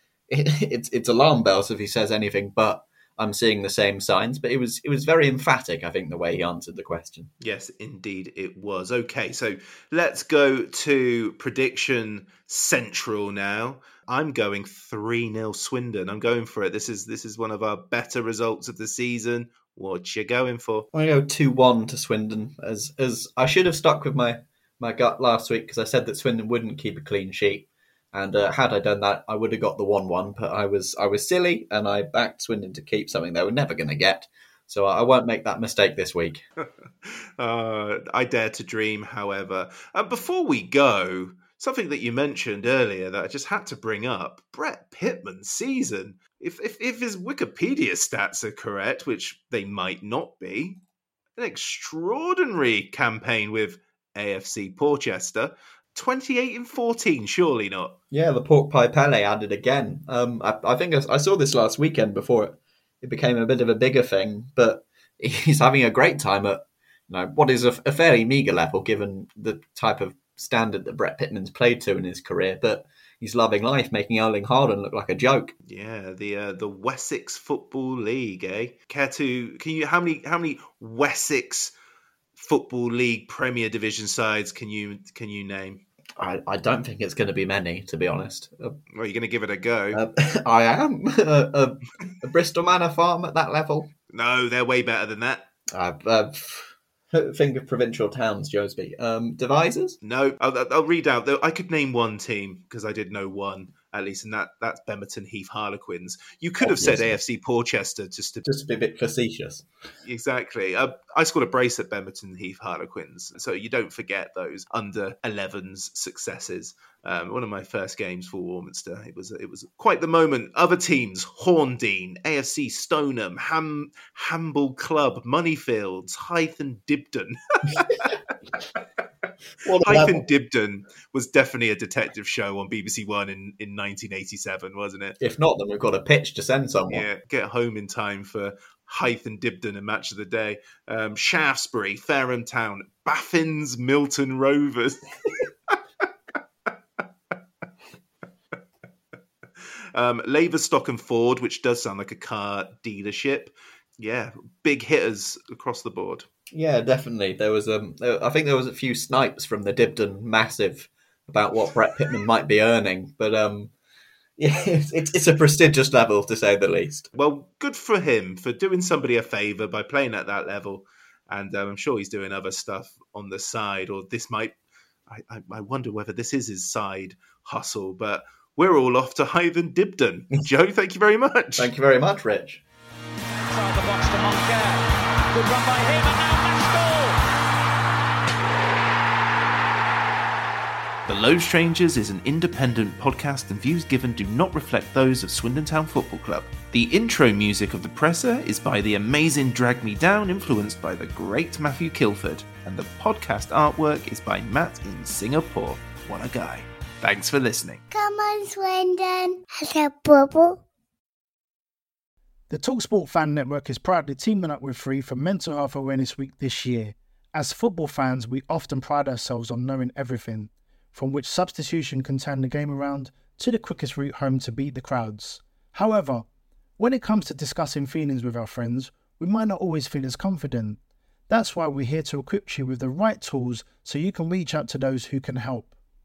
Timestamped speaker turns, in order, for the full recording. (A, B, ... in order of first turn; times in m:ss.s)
0:00.3-0:07.3 A
0:07.4-0:20.9 B
0:20.9-0:36.4 A
0:37.0-0:50.8 B
0:51.4-0:58.0 B
0:58.1-1:15.5 A
1:15.7-1:21.8 B
1:22.4-1:25.8 B
1:26.2-1:28.8 A
1:28.9-1:30.0 B
1:29.9-1:33.9 A
1:34.1-1:35.5 B
1:35.7-1:40.0 A
1:40.0-1:48.5 B
1:46.6-1:47.2 A
1:48.4-1:49.6 A
1:50.0-2:08.2 B
2:09.6-2:10.2 A
2:09.8-2:15.2 B
2:15.2-2:17.0 A
2:16.9-2:25.8 B
2:29.9-2:36.3 B
2:36.5-2:43.7 A
2:44.4-2:47.1 A
2:47.2-2:54.6 B
2:55.1-3:01.7 B
3:01.6-3:02.6 A
3:03.5-3:07.2 C
3:11.1-3:27.8 B
3:27.9-3:30.6 D
3:32.5-3:46.3 E
3:46.8-3:55.7 E